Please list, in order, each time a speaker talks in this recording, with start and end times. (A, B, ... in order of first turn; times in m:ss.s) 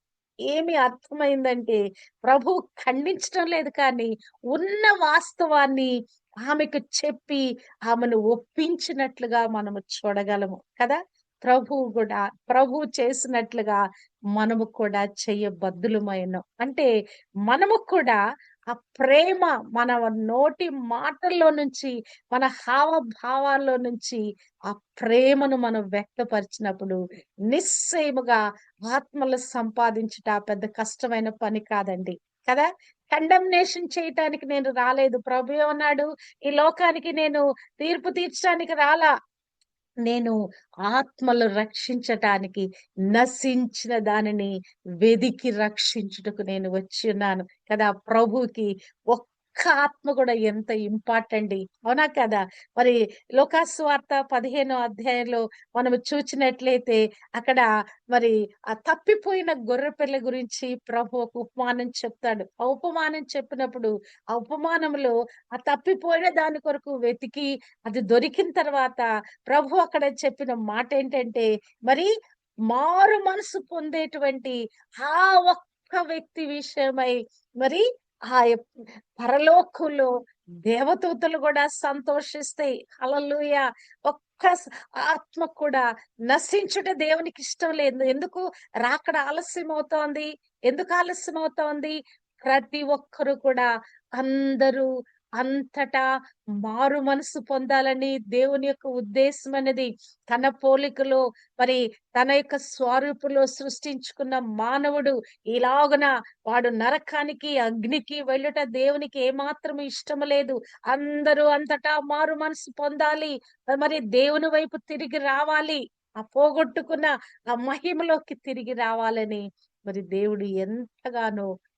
0:00.5-0:05.9 A
0:06.4-0:13.8 A
0:14.4-0:16.9 A
0:17.5-0:18.2 A
0:18.7-0:27.0 A
0:27.5-0:39.1 A
0:40.0-0:44.5 A
0:45.0-1:12.1 A
1:12.7-1:18.6 A
1:19.2-1:20.1 A
1:20.7-1:34.9 A
1:35.4-1:36.0 A
1:36.6-2:01.5 A